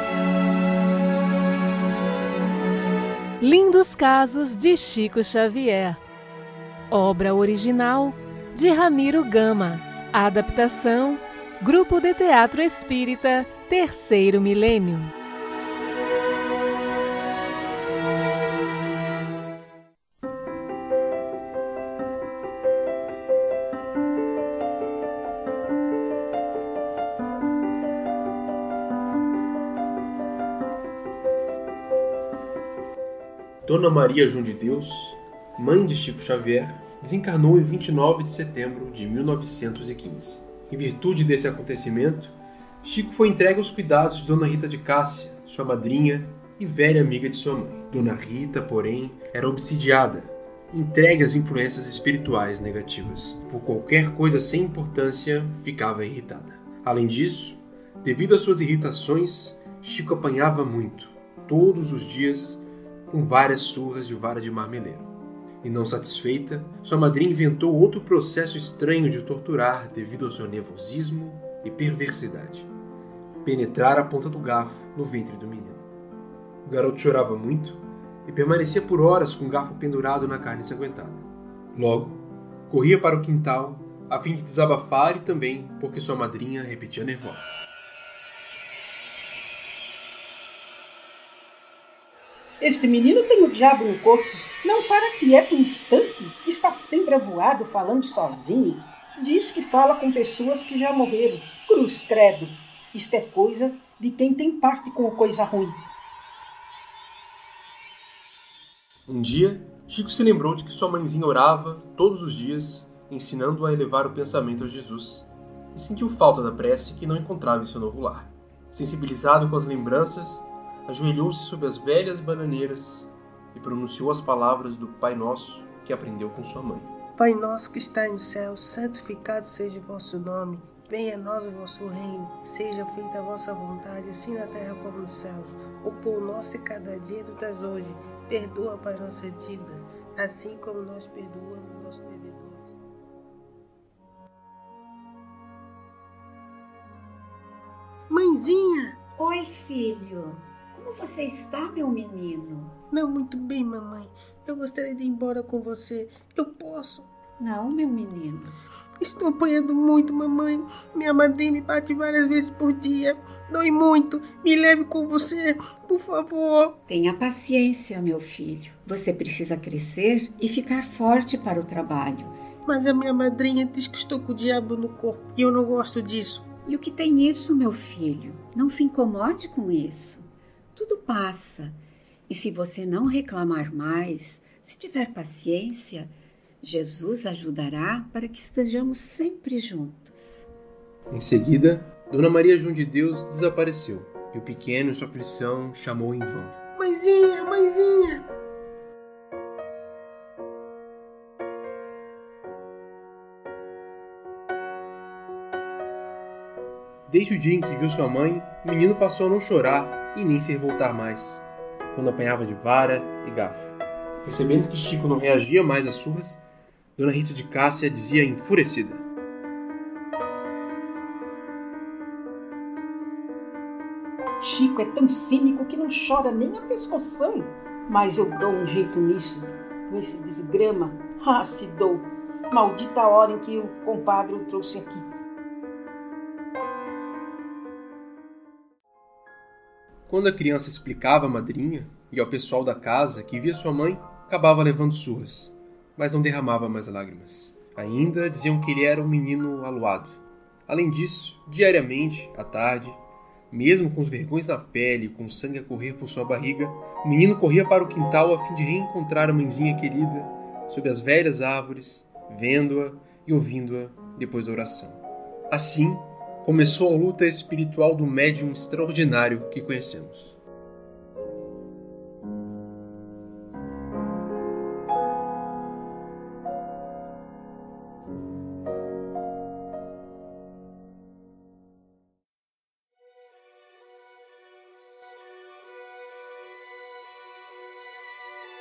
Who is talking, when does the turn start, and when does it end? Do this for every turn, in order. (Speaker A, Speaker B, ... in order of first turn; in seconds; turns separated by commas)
Speaker A: 3.4-6.0, Speaker A: 6.9-15.1, Speaker B: 33.6-65.1, Speaker B: 65.6-72.7, Speaker B: 73.4-75.8, Speaker B: 76.6-87.5, Speaker C: 92.6-105.8, Speaker B: 109.1-126.9, Speaker D: 127.2-142.7, Speaker D: 148.1-148.9, Speaker E: 149.2-152.8, Speaker D: 152.9-157.1, Speaker E: 157.4-158.5, Speaker D: 159.0-166.7, Speaker E: 166.9-172.3, Speaker D: 172.6-176.4, Speaker E: 176.6-181.8, Speaker E: 182.3-190.5, Speaker B: 191.1-196.5, Speaker D: 196.8-198.2, Speaker B: 207.1-216.4, Speaker B: 217.0-219.0, Speaker C: 224.4-235.1, Speaker B: 240.1-270.4